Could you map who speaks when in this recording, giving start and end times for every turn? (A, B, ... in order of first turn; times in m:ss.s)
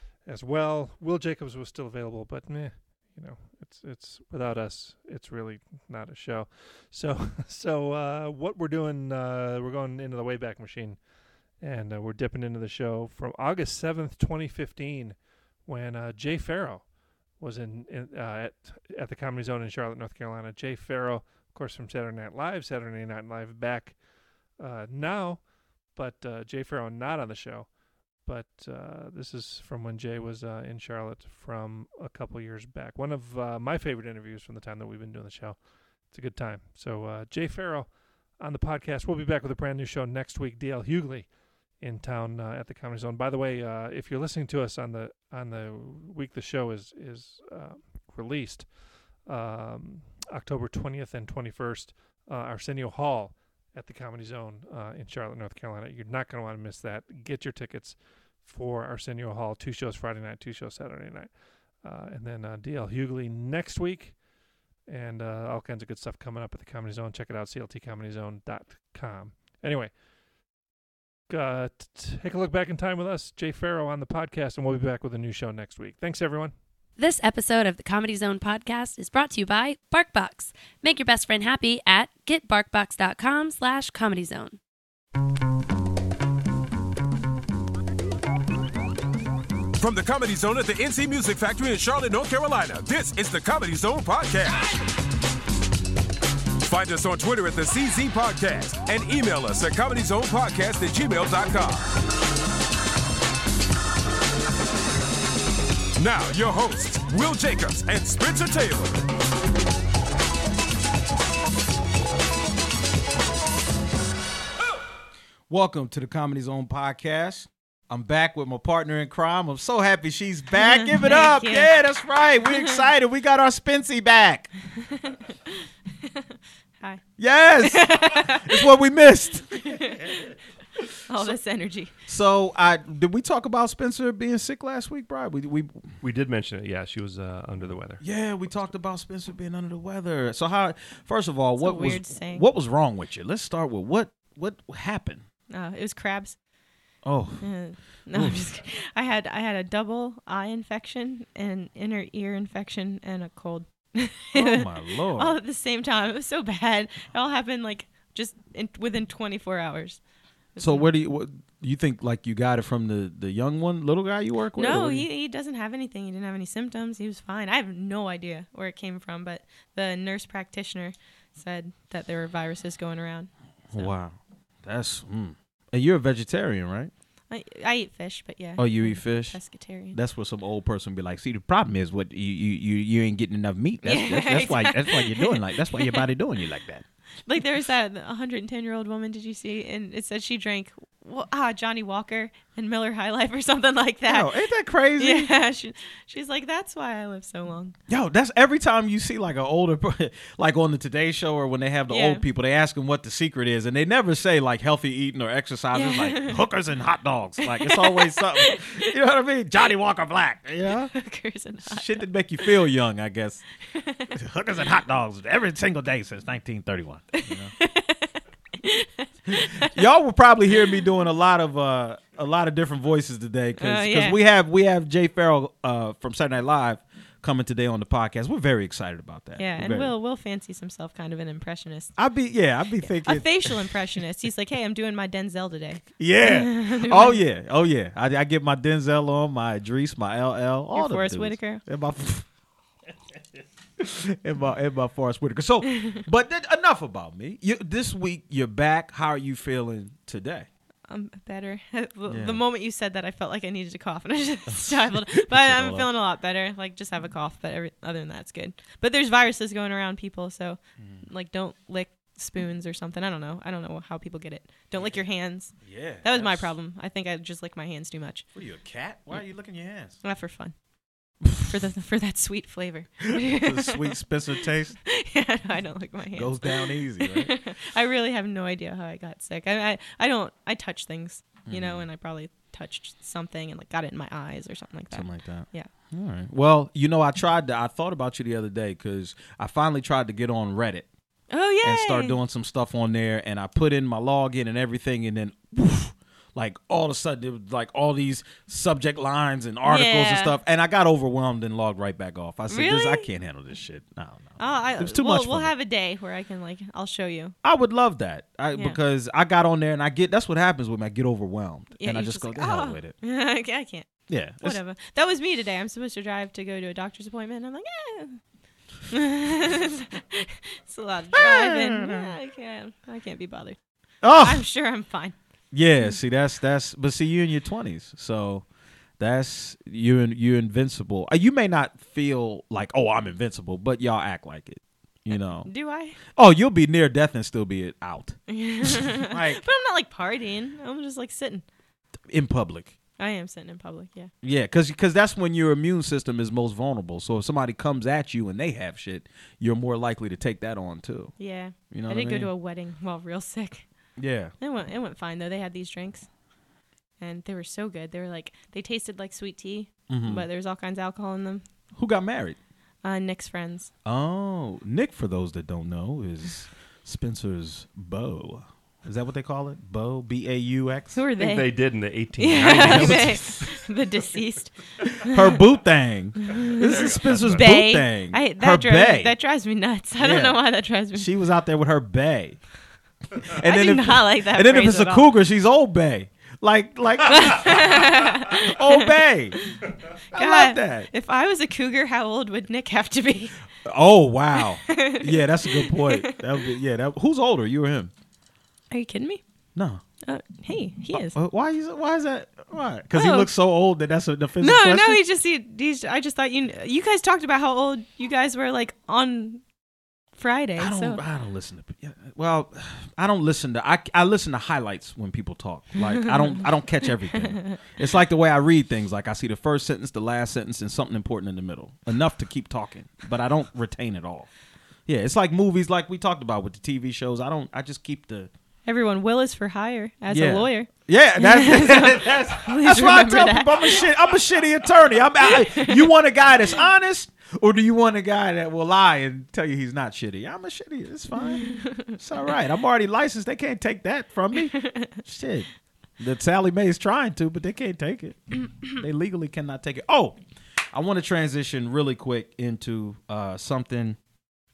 0:00.2-0:11.0 A
0:11.6-0:24.0 A
0:24.6-1:04.2 A
1:04.8-1:10.0 A
1:11.3-1:16.5 A
1:17.0-1:24.6 B
1:29.8-1:34.7 C
1:36.6-1:41.9 C
1:46.0-1:49.0 C
1:55.5-2:04.5 D
2:00.5-2:01.7 E
2:02.5-2:02.8 E
2:04.8-2:05.5 E
2:07.2-2:10.0 D
2:07.6-2:08.7 E
2:09.6-2:10.3 E
2:11.1-2:11.9 E
2:12.1-2:15.9 D
2:16.0-2:18.0 F
2:18.0-2:25.2 D
2:21.6-2:22.4 E
2:25.5-2:26.4 E
2:27.0-2:27.5 D
2:27.4-2:40.0 E
2:28.1-2:28.4 D
2:34.3-2:35.4 D
2:40.6-2:40.9 E
2:40.6-2:45.0 D
2:44.5-2:53.9 E
2:53.7-2:56.9 D
2:57.3-3:00.0 E
2:58.6-2:59.4 D
2:59.9-3:06.8 D
3:03.8-3:06.0 E
3:07.3-3:14.3 E
3:14.0-3:15.3 D
3:15.0-3:17.8 E
3:17.9-3:30.9 D
3:21.9-3:22.2 E
3:25.7-3:26.4 E
3:27.4-3:28.9 E
3:30.9-3:32.5 E
3:31.6-3:33.4 D
3:33.7-3:34.1 E
3:34.1-3:37.5 D
3:37.2-3:38.1 E
3:38.6-3:39.8 E
3:39.3-3:49.9 D
3:43.6-3:44.2 E
3:49.4-3:51.9 E
3:52.0-3:53.6 D
3:52.8-3:57.2 E
3:56.0-4:02.2 D
4:00.7-4:01.6 E
4:03.8-4:10.5 D
4:05.8-4:06.0 E
4:10.9-4:28.2 E
4:12.1-4:12.4 D
4:14.5-4:15.9 D
4:20.8-4:21.0 D
4:24.7-4:25.0 D
4:25.6-4:26.5 D
4:28.3-4:30.0 D
4:30.0-4:30.5 E
4:31.2-4:31.5 D
4:31.4-4:34.0 E
4:33.1-4:34.8 D
4:34.8-4:45.7 E
4:36.1-4:37.4 D
4:41.4-4:41.8 D
4:44.9-4:50.9 D
4:51.3-4:52.2 E
4:51.6-5:05.5 D
4:59.6-5:00.3 E
5:02.5-5:03.1 E
5:04.4-5:07.3 E
5:07.4-5:12.9 D
5:11.8-5:18.2 E
5:14.1-5:14.6 D
5:18.9-5:23.6 E
5:21.1-5:22.1 D
5:24.0-5:24.4 D
5:24.1-5:25.1 E
5:25.5-5:28.4 D
5:29.0-5:35.5 D
5:35.4-5:36.0 E
5:36.1-5:39.4 D
5:38.3-5:41.4 E
5:42.1-5:42.7 D
5:43.0-5:44.1 E
5:44.2-5:51.1 D
5:51.2-5:53.6 E
5:51.7-5:52.3 D
5:54.0-5:54.3 D
5:54.4-5:56.1 E
5:57.0-6:01.4 E
5:59.9-6:00.2 D
6:01.8-6:02.4 D
6:02.8-6:03.7 E
6:03.8-6:11.0 D
6:10.9-6:15.4 E
6:11.2-6:13.3 F
6:12.4-6:13.5 D
6:15.0-6:19.1 D
6:16.2-6:21.1 E
6:16.7-6:17.4 F
6:20.0-6:20.4 D
6:20.9-6:22.4 D
6:23.3-6:29.4 D
6:23.3-6:25.1 E
6:27.0-6:29.6 E
6:30.1-6:30.9 D
6:30.1-6:33.4 E
6:33.6-6:37.9 D
6:34.4-6:36.4 E
6:38.7-6:39.2 E
6:39.5-6:39.8 D
6:40.0-6:41.1 E
6:40.9-6:45.0 D
6:42.9-6:43.3 E
6:44.4-6:49.4 E
6:50.2-6:51.0 E
6:50.6-7:04.3 D
6:55.8-6:56.4 E
6:57.1-6:57.6 E
7:04.8-7:08.3 D
7:08.6-7:13.8 E
7:10.1-7:25.5 D
7:15.2-7:15.9 E
7:21.1-7:21.9 E
7:24.3-7:25.0 E
7:26.0-7:30.2 D
7:30.7-7:34.0 D